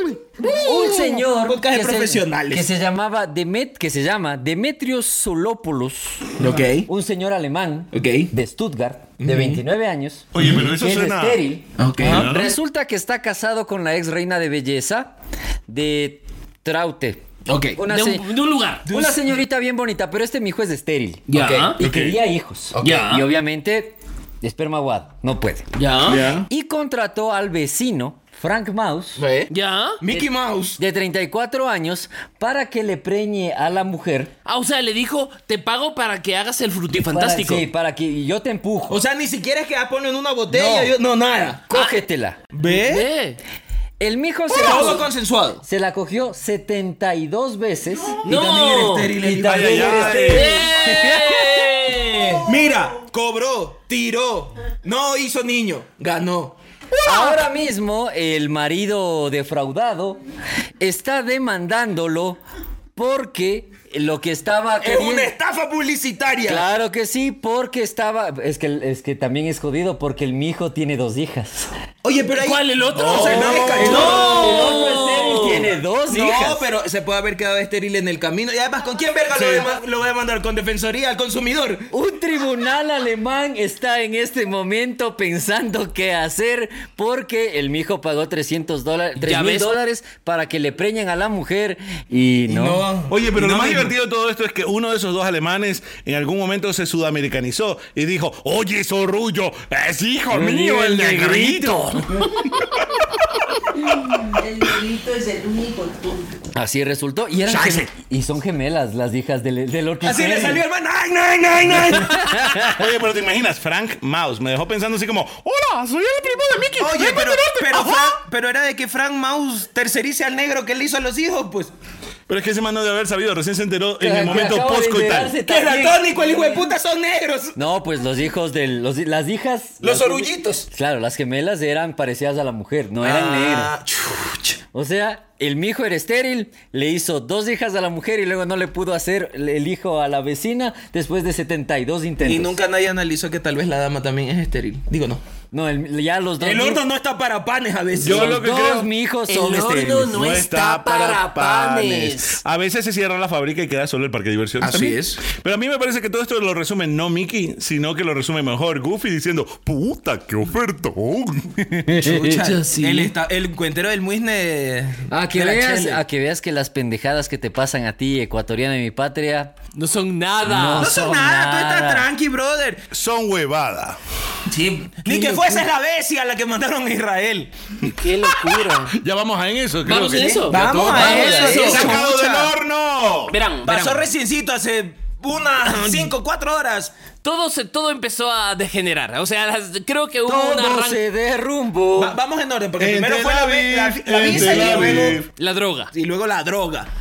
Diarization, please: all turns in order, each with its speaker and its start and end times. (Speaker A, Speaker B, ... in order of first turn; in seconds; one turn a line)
Speaker A: 0.4-2.7
Speaker B: 0.5-15.1
Speaker A: 6.4-6.9
Speaker A: 7.9-8.3
Speaker A: 9.2-9.6
Speaker C: 10.3-11.4
Speaker A: 11.8-12.3
Speaker C: 12.0-12.5
Speaker B: 15.7-18.3
Speaker A: 17.5-17.8
Speaker D: 17.8-18.9
Speaker A: 18.9-19.2
Speaker B: 18.9-25.8
Speaker D: 21.3-21.8
Speaker A: 21.3-21.8
Speaker C: 21.8-22.2
Speaker A: 22.8-23.0
Speaker D: 22.8-23.3
Speaker D: 25.8-26.3
Speaker C: 26.0-26.5
Speaker B: 26.4-29.2
Speaker A: 29.2-29.5
Speaker D: 29.5-30.2
Speaker A: 30.0-30.8
Speaker B: 30.8-34.3
Speaker D: 34.5-37.7
Speaker B: 36.9-39.0
Speaker A: 38.9-41.7
Speaker B: 40.5-40.9
Speaker B: 41.7-42.4
Speaker A: 42.5-43.1
Speaker D: 42.6-43.4
Speaker B: 44.0-45.1
Speaker A: 44.5-45.6
Speaker B: 45.6-48.2
Speaker A: 48.2-50.6
Speaker D: 48.2-49.1
Speaker B: 49.2-51.7
Speaker C: 49.4-50.5
Speaker D: 50.2-52.5
Speaker A: 52.5-56.5
Speaker B: 57.0-60.2
Speaker B: 60.8-62.4
Speaker B: 63.0-65.3
Speaker A: 64.8-66.7
Speaker B: 66.5-71.7
Speaker A: 72.0-74.8
Speaker D: 72.4-75.7
Speaker C: 72.9-74.5
Speaker B: 73.8-76.7
Speaker A: 76.1-81.9
Speaker C: 79.3-79.7
Speaker B: 81.9-92.9
Speaker D: 89.2-89.7
Speaker A: 92.5-93.9
Speaker C: 93.1-102.8
Speaker B: 100.3-102.3
Speaker E: 104.3-106.3
Speaker B: 106.5-110.6
Speaker C: 107.5-107.9
Speaker A: 110.0-112.5
Speaker B: 112.1-112.9
Speaker C: 112.5-118.2
Speaker A: 116.8-121.7
Speaker C: 122.3-125.3
Speaker B: 124.0-126.2
Speaker A: 125.5-127.6
Speaker B: 127.5-133.7
Speaker A: 129.8-130.7
Speaker A: 133.0-134.6
Speaker B: 134.7-142.6
Speaker A: 142.2-145.2
Speaker B: 145.5-146.8
Speaker A: 146.4-148.4
Speaker C: 148.0-148.9
Speaker B: 148.0-150.2
Speaker D: 149.3-152.4
Speaker C: 150.0-161.6
Speaker A: 154.6-155.2
Speaker B: 161.6-162.4
Speaker A: 162.0-166.0
Speaker D: 162.3-163.1
Speaker B: 165.1-169.5
Speaker D: 169.8-170.9
Speaker B: 170.4-172.1
Speaker A: 170.8-172.8
Speaker C: 172.9-174.0
Speaker A: 174.5-177.5
Speaker B: 175.1-175.5
Speaker D: 177.8-179.0
Speaker C: 178.7-183.4
Speaker D: 179.8-182.0
Speaker A: 180.1-182.5
Speaker B: 180.9-181.7
Speaker D: 183.3-184.0
Speaker A: 183.7-186.9
Speaker D: 187.2-191.0
Speaker B: 190.3-192.2
Speaker A: 192.0-195.2
Speaker C: 192.8-195.3
Speaker D: 194.5-195.9
Speaker A: 195.9-196.9